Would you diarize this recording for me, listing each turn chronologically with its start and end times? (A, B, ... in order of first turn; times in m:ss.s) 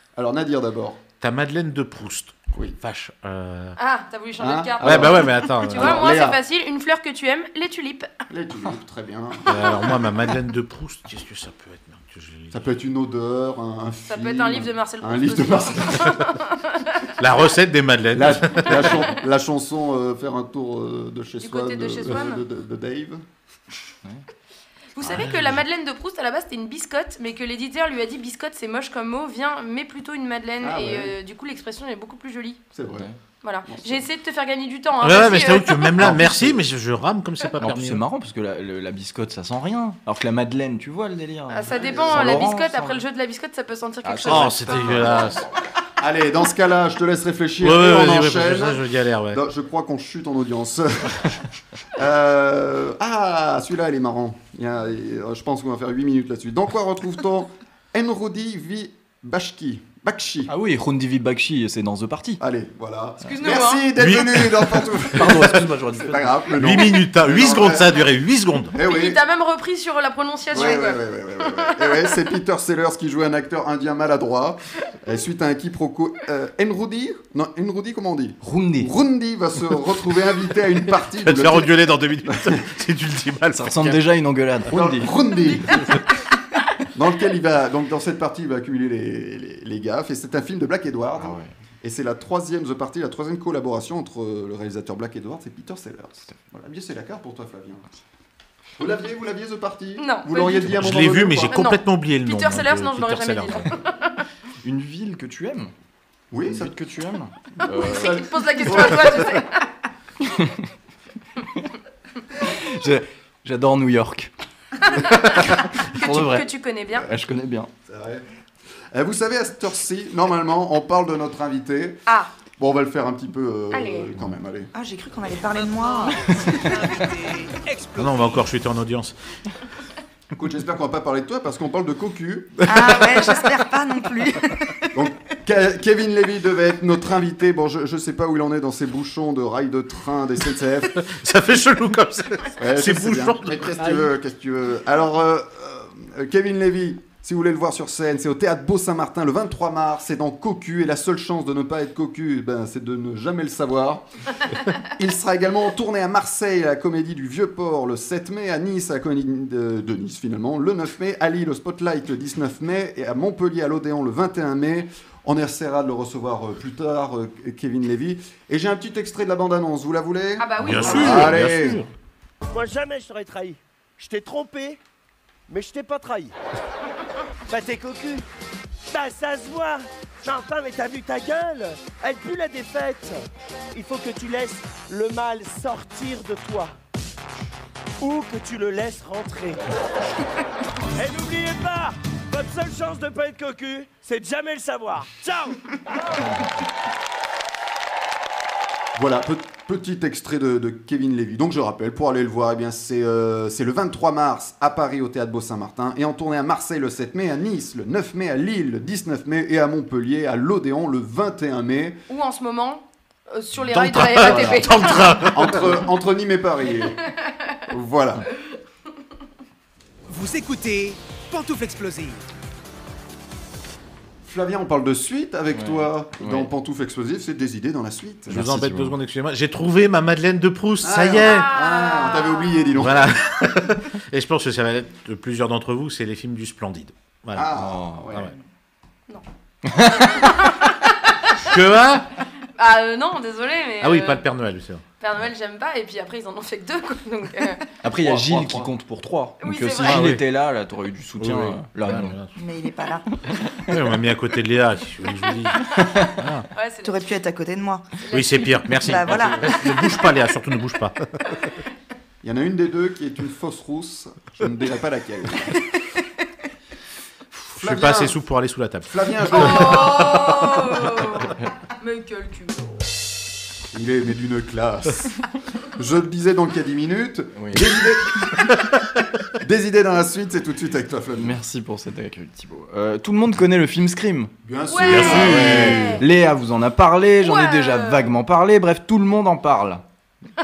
0:00.2-0:01.0 A
0:01.2-0:03.8 B
0:03.8-0:08.1 C
0:04.4-0:06.4 A
0:04.8-0:06.2 B
0:08.3-0:10.3 A
0:09.5-0:12.7 B
0:12.5-0:16.3 A
0:14.1-0:17.1 C
0:17.2-0:19.1 B
0:18.1-0:23.2 A
0:21.4-0:22.4 C
0:25.0-0:32.6 C
0:25.0-0:25.6 B
0:30.6-0:31.1 A
0:32.7-0:33.1 A
0:33.4-0:36.0 C
0:33.7-0:34.0 A
0:35.0-0:38.0 B
0:36.0-0:36.6 A
0:37.6-0:43.0 D
0:41.5-0:44.9 C
0:41.7-0:42.5 A
0:44.0-0:45.5 D
0:44.3-0:45.4 B
0:46.0-0:51.3 A
0:47.6-0:49.4 B
0:52.0-1:00.5 A
1:00.5-1:02.4 D
1:02.4-1:08.1 A
1:03.2-1:03.9 C
1:04.0-1:06.8 D
1:04.0-1:04.4 B
1:06.6-1:08.8 B
1:08.7-1:09.2 A
1:08.8-1:11.0 C
1:10.5-1:22.6 A
1:10.5-1:10.8 E
1:11.6-1:12.1 C
1:18.4-1:18.9 D
1:21.2-1:24.0 B
1:23.5-1:25.1 D
1:24.7-1:26.0 A
1:26.9-1:37.8 A
1:31.2-1:31.5 D
1:38.8-1:41.6 A
1:40.0-1:40.9 C
1:40.7-1:43.7 B
1:41.5-1:44.2 C
1:44.6-1:45.7 D
1:46.3-1:46.7 A
1:46.4-1:48.1 D
1:47.6-1:49.7 C
1:47.7-1:49.4 A
1:50.3-1:50.6 D
1:52.4-1:54.3 D
1:54.9-1:57.1 C
1:55.2-1:56.5 D
1:57.1-1:57.7 D
1:57.9-1:58.3 A
1:58.9-2:02.0 A
2:02.6-2:04.7 A
2:03.7-2:04.1 C
2:04.7-2:06.5 E
2:06.3-2:06.7 D
2:06.5-2:08.5 F
2:07.6-2:08.0 G
2:08.0-2:09.1 B
2:10.4-2:12.6 A
2:12.7-2:14.9 E
2:14.9-2:21.1 A
2:21.0-2:24.1 B
2:22.6-2:51.8 A
2:50.4-2:51.4 C
2:50.6-2:51.9 B
2:52.5-2:54.8 G
2:55.5-2:56.3 G
2:57.5-2:58.2 G
2:58.9-3:03.2 G
3:03.7-3:06.7 G
3:08.0-3:09.6 G
3:11.0-3:16.2 G
3:19.0-3:32.0 A
3:32.1-3:35.3 C
3:33.7-3:37.1 A
3:33.9-3:35.8 B
3:37.7-3:38.3 A
3:40.1-3:42.2 F
3:44.2-3:48.5 A
3:45.5-3:46.5 D
3:48.3-3:49.0 D
3:48.3-3:51.5 B
3:50.8-3:53.1 A
3:51.2-3:52.7 C
3:52.8-3:57.5 B
3:57.4-3:58.3 A
3:57.5-3:58.0 D
3:59.7-4:00.1 D
3:59.8-4:01.5 C
4:01.4-4:02.1 B
4:02.6-4:04.2 C
4:03.8-4:04.8 B
4:05.0-4:07.6 C
4:07.8-4:12.2 D
4:07.9-4:08.7 A
4:09.4-4:10.1 C
4:09.8-4:10.2 B
4:11.2-4:12.3 B
4:12.4-4:13.1 E
4:13.3-4:13.8 D
4:13.7-4:16.5 B
4:15.8-4:16.1 D
4:16.5-4:17.1 C
4:16.8-4:18.0 E
4:18.1-4:18.6 C
4:18.1-4:21.4 B
4:18.7-4:19.6 E
4:22.2-4:25.6 A
4:27.6-4:30.5 B
4:27.6-4:28.2 A
4:28.9-4:30.4 A
4:29.3-4:32.7 C
4:33.7-4:38.6 A
4:37.4-4:37.7 D
4:39.4-4:41.4 A
4:41.1-4:44.3 D
4:44.4-4:46.0 A
4:44.7-4:46.0 C
4:44.8-4:45.8 B
4:45.1-4:49.8 D
4:47.2-4:48.1 C